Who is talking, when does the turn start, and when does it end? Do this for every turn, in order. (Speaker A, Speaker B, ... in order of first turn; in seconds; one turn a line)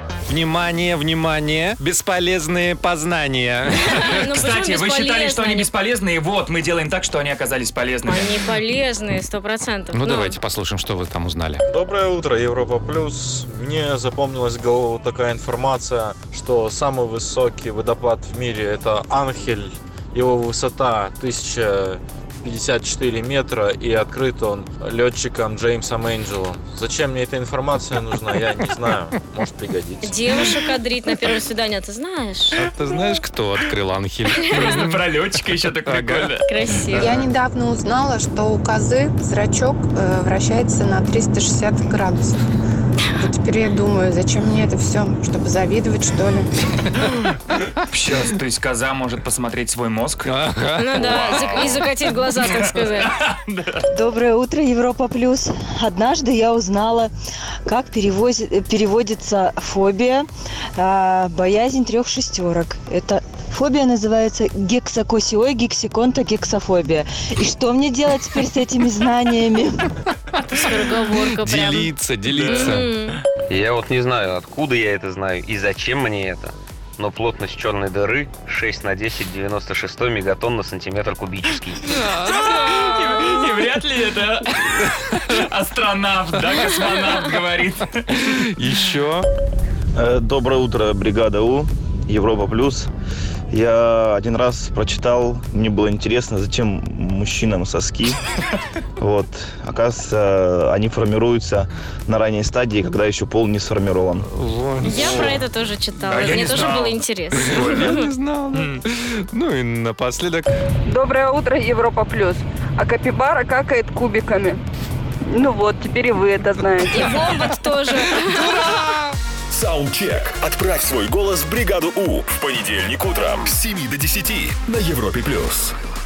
Speaker A: 0.3-4.2
Speaker B: 4.0-5.7
Speaker C: 4.3-8.4
Speaker B: 8.1-10.4
Speaker A: 9.9-11.6
Speaker D: 11.7-30.2
Speaker B: 30.0-32.6
Speaker A: 32.5-35.0
Speaker C: 34.5-37.3
Speaker A: 35.8-36.4
Speaker B: 36.4-37.1
Speaker E: 36.9-42.4
Speaker E: 43.2-46.5
Speaker C: 47.8-50.5
Speaker A: 50.3-51.6
Speaker B: 50.8-53.1
Speaker C: 51.0-53.8
Speaker F: 53.9-57.1
Speaker F: 57.7-69.8
Speaker B: 70.5-73.2
Speaker A: 71.3-72.9
Speaker G: 73.5-81.8
Speaker C: 81.9-88.3
Speaker A: 82.0-82.5
Speaker A: 88.3-89.3
Speaker H: 90.0-92.9
Speaker H: 93.5-98.2
Speaker H: 99.0-104.2
Speaker A: 104.3-105.4
Speaker B: 104.8-108.1
Speaker C: 104.9-105.4
Speaker C: 106.0-108.0
Speaker A: 107.3-110.5
Speaker I: 110.9-114.6
Speaker I: 115.3-117.3
Speaker B: 116.9-118.7
Speaker J: 119.5-125.7